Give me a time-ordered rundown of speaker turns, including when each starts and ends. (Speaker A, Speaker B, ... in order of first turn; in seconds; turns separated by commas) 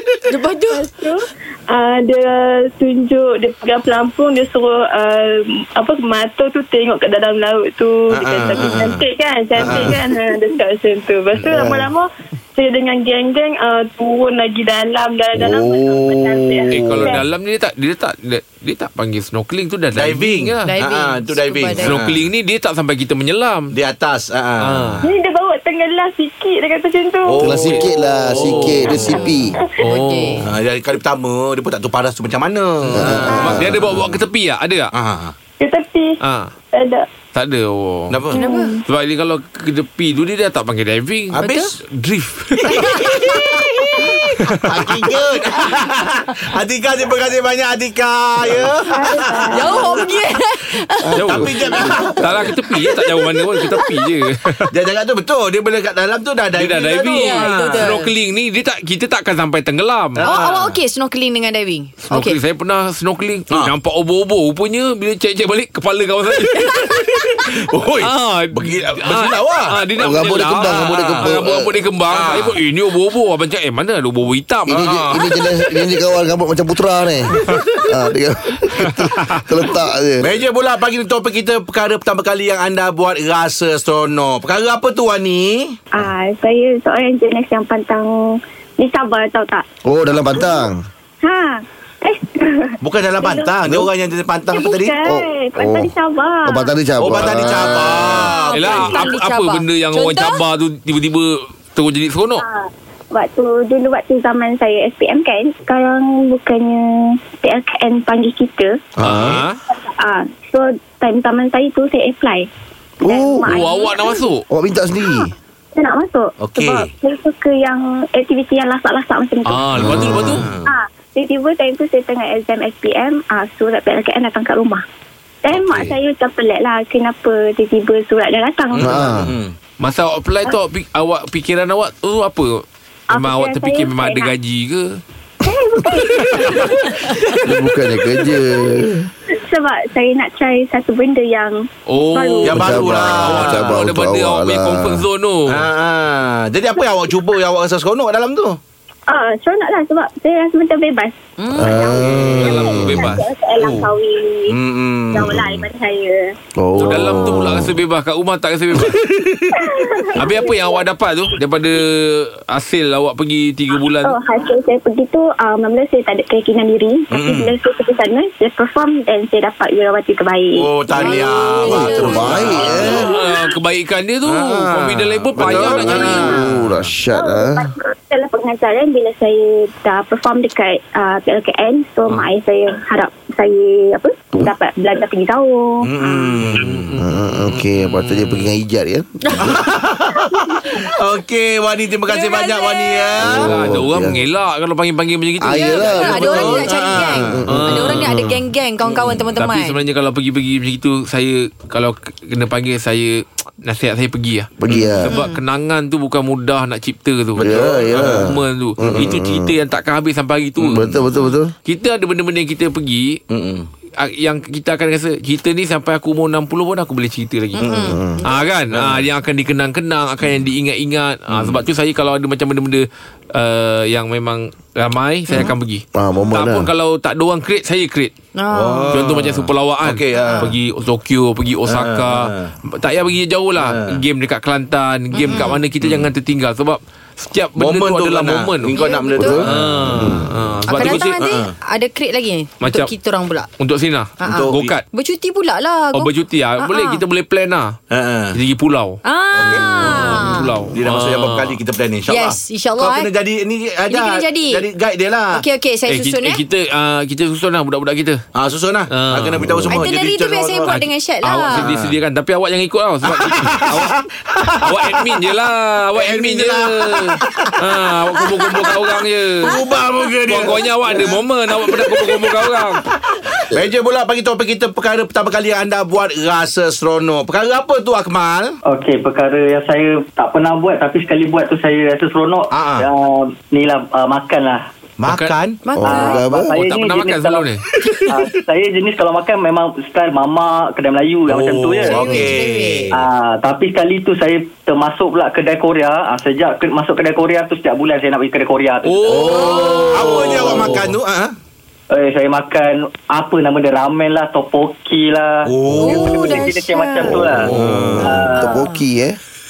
Speaker A: 0.3-0.9, Speaker B: 0.8-17.2, Speaker C: 8.1-9.0, Speaker C: 9.6-10.0, Speaker D: 15.3-17.2, Speaker E: 16.7-20.7, Speaker C: 19.9-22.2, Speaker A: 20.7-22.0, Speaker E: 21.8-23.7, Speaker C: 23.7-25.0, Speaker E: 24.6-25.1, Speaker B: 25.0-27.8, Speaker C: 27.3-27.9, Speaker D: 27.4-29.6, Speaker E: 28.4-29.0, Speaker B: 28.9-29.2, Speaker A: 29.0-30.4, Speaker E: 29.8-30.5, Speaker C: 30.5-34.2, Speaker E: 32.9-34.9, Speaker D: 32.9-33.8, Speaker C: 35.0-35.4, Speaker B: 35.6-36.2, Speaker E: 36.2-36.5, Speaker B: 36.7-37.1, Speaker E: 37.3-38.2, Speaker C: 38.1-38.4, Speaker A: 38.3-38.7, Speaker B: 38.4-38.8, Speaker E: 38.9-43.0, Speaker C: 41.4-41.8, Speaker A: 41.4-41.7, Speaker C: 42.6-49.9, Speaker A: 42.7-44.4, Speaker E: 44.5-44.8, Speaker F: 48.9-49.9, Speaker A: 49.5-51.1, Speaker D: 51.0-52.5, Speaker E: 51.2-51.5, Speaker C: 51.2-52.3, Speaker E: 52.2-54.7, Speaker A: 52.8-54.1, Speaker C: 54.7-57.9, Speaker E: 56.5-60.2, Speaker A: 57.1-58.1, Speaker C: 60.2-60.8, Speaker A: 60.2-62.4, Speaker E: 62.1-66.9, Speaker A: 66.5-66.9, Speaker C: 66.9-69.8, Speaker E: 68.0-75.0, Speaker D: 70.0-71.8, Speaker C: 70.6-71.3, Speaker C: 72.1-72.6, Speaker D: 74.7-80.4, Speaker C: 74.8-75.2, Speaker C: 77.4-77.9, Speaker E: 78.8-79.4, Speaker C: 80.2-85.8, Speaker F: 85.9-88.1, Speaker F: 88.8-89.6, Speaker D: 89.9-90.8, Speaker F: 90.3-90.7, Speaker F: 91.2-93.5, Speaker C: 92.8-95.0, Speaker F: 94.5-96.7, Speaker D: 95.1-95.9, Speaker D: 96.5-98.3, Speaker C: 97.0-99.0, Speaker A: 97.9-100.4, Speaker E: 98.5-102.4, Speaker F: 102.4-106.8, Speaker F: 107.4-108.7, Speaker C: 109.0-109.4, Speaker D: 109.0-109.4, Speaker E: 109.0-109.6, Speaker F: 109.7-112.5, Speaker D: 113.0-113.6, Speaker F: 113.0-114.2, Speaker E: 113.5-114.4, Speaker D: 114.5-115.3, Speaker F: 115.0-119.8, Speaker C: 116.4-116.9, Speaker E: 119.5-120.5, Speaker C: 119.8-120.7, Speaker D: 119.8-120.4, Speaker F: 120.7-124.8, Speaker F: 125.4-129.2, Speaker C: 125.5-126.0, Speaker C: 128.8-129.5, Speaker D: 128.8-129.3, Speaker E: 129.8-135.0, Speaker F: 133.1-134.3, Speaker F: 135.4-137.4, Speaker D: 137.4-139.1, Speaker F: 139.3-143.2, Speaker E: 141.9-145.7, Speaker C: 142.4-143.7, Speaker D: 142.5-145.1, Speaker C: 145.5-148.6, Speaker F: 149.1-154.6, Speaker A: 151.4-151.8, Speaker D: 151.6-153.1, Speaker C: 152.1-152.4, Speaker E: 152.1-153.2, Speaker C: 154.5-155.7, Speaker F: 155.1-156.3, Speaker D: 156.6-157.8, Speaker E: 156.8-159.0, Speaker C: 158.7-160.0, Speaker F: 159.5-160.8, Speaker E: 160.2-164.2, Speaker F: 164.0-172.3, Speaker C: 167.1-167.5, Speaker C: 170.6-173.1, Speaker A: 170.9-173.1, Speaker D: 171.6-173.1, Speaker E: 172.8-176.4, Speaker C: 174.3-176.8, Speaker F: 175.6-176.4, Speaker D: 175.9-177.6, Speaker F: 177.1-186.4, Speaker C: 185.8-186.9, Speaker E: 186.6-188.5, Speaker D: 187.0-189.6, Speaker C: 189.4-193.5, Speaker A: 192.1-193.2, Speaker D: 193.2-194.2, Speaker E: 193.3-196.6, Speaker D: 195.4-198.4, Speaker A: 195.6-199.8, Speaker C: 196.1-197.4, Speaker E: 197.5-198.1, Speaker C: 198.9-199.2, Speaker E: 199.4-204.5, Speaker D: 204.6-205.1, Speaker C: 204.7-205.0, Speaker E: 205.1-211.0, Speaker A: 205.1-205.4, Speaker C: 207.4-208.3, Speaker D: 207.4-209.5, Speaker C: 208.8-209.1, Speaker D: 210.6-211.5, Speaker E: 211.7-213.2, Speaker C: 213.3-213.7, Speaker E: 214.0-217.7, Speaker A: 217.6-218.0, Speaker D: 217.6-218.2, Speaker E: 218.2-228.1, Speaker C: 218.7-219.1, Speaker C: 221.3-221.6, Speaker D: 225.9-226.7, Speaker A: 228.4-228.9, Speaker C: 228.5-230.6, Speaker E: 228.9-238.8, Speaker A: 230.2-230.5, Speaker C: 231.7-232.5, Speaker C: 233.6-234.0, Speaker A: 235.2-235.6, Speaker C: 235.8-236.1, Speaker C: 237.6-240.2, Speaker A: 238.7-239.4, Speaker D: 239.2-240.3, Speaker E: 239.4-241.2, Speaker A: 240.7-243.5, Speaker C: 240.8-241.5, Speaker E: 242.6-242.9, Speaker E: 243.6-244.8, Speaker A: 244.2-247.0, Speaker C: 244.2-244.7, Speaker E: 245.9-247.8, Speaker C: 247.9-248.4, Speaker E: 248.3-249.0, Speaker A: 249.0-250.5, Speaker C: 249.4-255.4, Speaker E: 249.5-251.6, Speaker A: 252.1-253.1, Speaker A: 253.9-254.7, Speaker A: 255.3-256.4, Speaker E: 255.9-258.2, Speaker C: 258.4-260.7, Speaker E: 258.9-259.4, Speaker D: 259.4-259.8, Speaker A: 259.7-261.6, Speaker E: 260.7-264.0, Speaker C: 261.5-261.9, Speaker C: 263.1-265.2, Speaker E: 264.6-269.6, Speaker C: 266.0-267.6, Speaker C: 268.4-268.7, Speaker C: 269.4-272.6, Speaker E: 270.3-272.8, Speaker C: 273.4-278.6, Speaker G: 278.7-284.7, Speaker C: 282.5-282.9, Speaker C: 285.0-285.6, Speaker E: 285.1-285.3, Speaker A: 285.6-286.2, Speaker D: 285.8-286.5, Speaker G: 285.8-287.5, Speaker E: 286.6-287.6, Speaker C: 287.8-288.1, Speaker G: 288.1-292.3, Speaker C: 291.3-293.1, Speaker A: 291.9-292.9, Speaker G: 292.9-299.9, Speaker E: 298.8-300.9, Speaker A: 299.1-300.4, Speaker C: 299.1-301.4, Speaker G: 301.9-308.6, Speaker C: 305.5-306.5, Speaker A: 305.8-307.2, Speaker D: 307.1-309.2, Speaker C: 307.2-308.4, Speaker A: 308.5-308.8